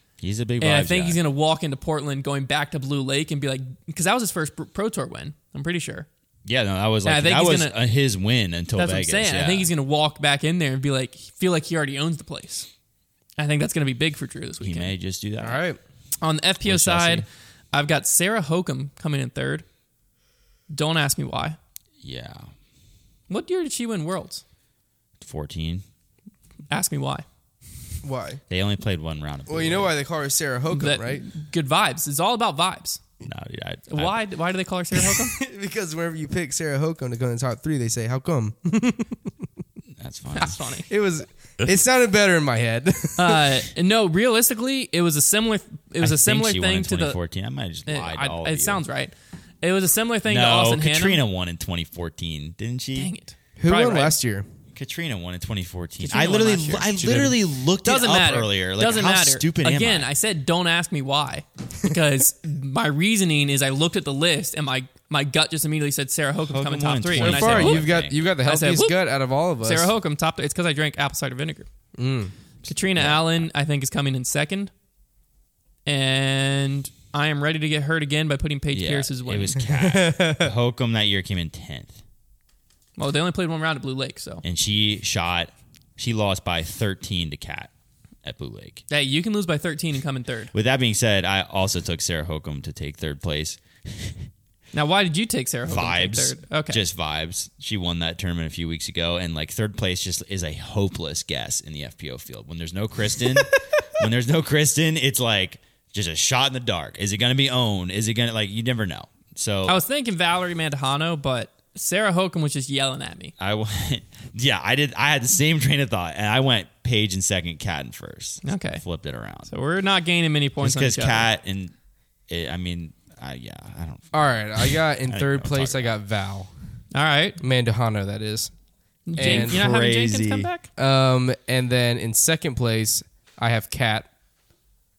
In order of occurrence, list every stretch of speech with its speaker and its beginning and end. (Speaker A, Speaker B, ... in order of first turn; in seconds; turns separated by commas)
Speaker A: 0.2-1.2, Speaker B: 0.6-6.1, Speaker A: 6.4-9.7, Speaker B: 7.0-7.8, Speaker B: 8.7-12.7, Speaker B: 13.4-14.9, Speaker A: 14.6-15.6, Speaker C: 15.4-15.8, Speaker B: 16.2-19.6, Speaker A: 16.6-17.2, Speaker B: 20.7-21.6, Speaker A: 22.0-22.5, Speaker B: 23.3-24.4, Speaker A: 25.2-25.8, Speaker B: 26.7-27.2, Speaker C: 28.0-28.4, Speaker A: 28.5-29.9, Speaker C: 29.5-31.2, Speaker B: 30.7-33.0, Speaker A: 33.2-34.1, Speaker B: 33.9-35.4, Speaker C: 35.0-39.3, Speaker A: 40.0-40.6, Speaker B: 40.3-40.9, Speaker C: 40.9-43.6, Speaker B: 43.2-47.2, Speaker A: 46.0-48.8, Speaker B: 47.9-51.2, Speaker A: 50.3-53.1, Speaker B: 53.0-54.1, Speaker C: 53.6-54.5, Speaker A: 54.7-60.1, Speaker B: 56.0-57.1, Speaker C: 56.9-57.4, Speaker B: 57.8-69.0, Speaker A: 66.5-68.1, Speaker C: 67.1-69.9, Speaker B: 69.6-71.7, Speaker C: 72.0-72.3, Speaker B: 72.6-74.7, Speaker A: 72.9-73.4, Speaker B: 75.8-79.6, Speaker A: 78.7-82.0, Speaker C: 79.7-80.5, Speaker B: 83.0-84.4, Speaker A: 84.4-87.7, Speaker A: 88.2-88.8, Speaker B: 88.9-90.5, Speaker A: 90.5-94.3, Speaker B: 94.7-96.8, Speaker A: 95.7-109.8, Speaker B: 109.7-113.3, Speaker A: 113.4-119.5, Speaker B: 118.4-118.8, Speaker B: 119.5-121.3, Speaker A: 120.6-121.7, Speaker A: 122.3-125.9, Speaker C: 124.1-126.5, Speaker B: 126.9-127.4, Speaker C: 127.4-128.5, Speaker B: 129.1-130.7, Speaker A: 129.2-130.5, Speaker C: 129.2-129.6, Speaker C: 130.8-134.1